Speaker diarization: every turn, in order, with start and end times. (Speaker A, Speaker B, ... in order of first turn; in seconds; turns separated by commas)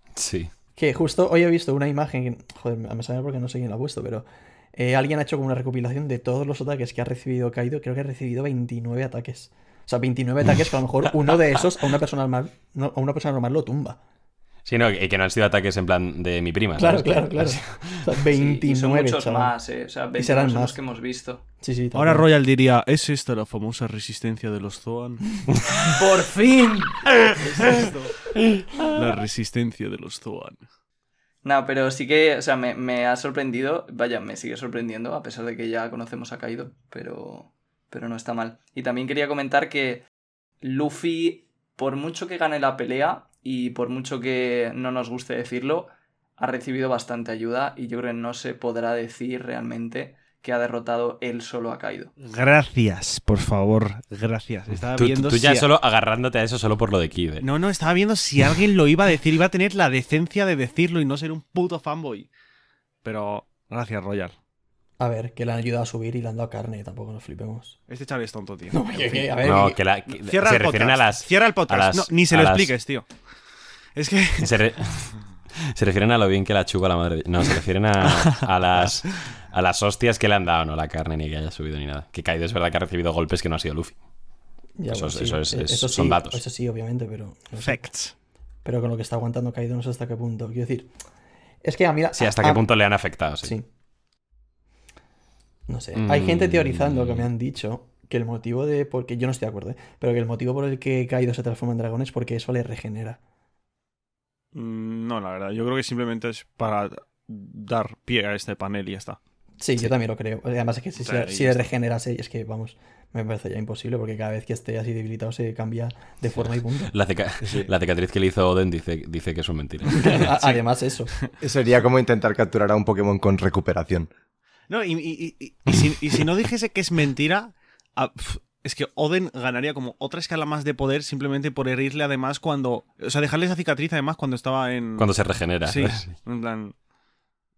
Speaker A: 0.2-0.5, Speaker B: 0.8-14.0, Speaker A: 14.7-18.1, Speaker B: 16.8-19.5, Speaker C: 18.4-21.4, Speaker B: 20.2-20.8, Speaker B: 21.6-22.3, Speaker D: 21.9-25.3, Speaker C: 25.9-27.1, Speaker D: 27.4-28.3, Speaker D: 28.9-30.6, Speaker C: 31.4-40.0, Speaker C: 40.6-52.1, Speaker D: 52.2-55.7, Speaker A: 54.9-57.5, Speaker D: 57.4-62.3, Speaker D: 63.0-64.3, Speaker B: 65.0-67.8, Speaker D: 67.9-69.5, Speaker B: 68.7-69.8, Speaker A: 69.4-72.8, Speaker D: 70.1-73.4, Speaker D: 74.0-74.6, Speaker A: 74.4-84.0, Speaker D: 78.1-78.5, Speaker B: 84.8-87.9, Speaker A: 84.9-86.4, Speaker D: 87.6-88.2, Speaker B: 88.6-90.9, Speaker B: 91.6-92.8, Speaker A: 92.1-93.6, Speaker B: 93.4-93.7, Speaker B: 95.7-103.2, Speaker A: 96.0-97.3, Speaker D: 104.5-109.2, Speaker B: 109.6-116.9, Speaker D: 111.0-111.7, Speaker A: 116.9-120.4, Speaker E: 117.4-117.7, Speaker B: 120.0-121.1, Speaker E: 121.4-124.1, Speaker D: 124.7-135.1, Speaker A: 135.0-136.2, Speaker D: 135.6-136.8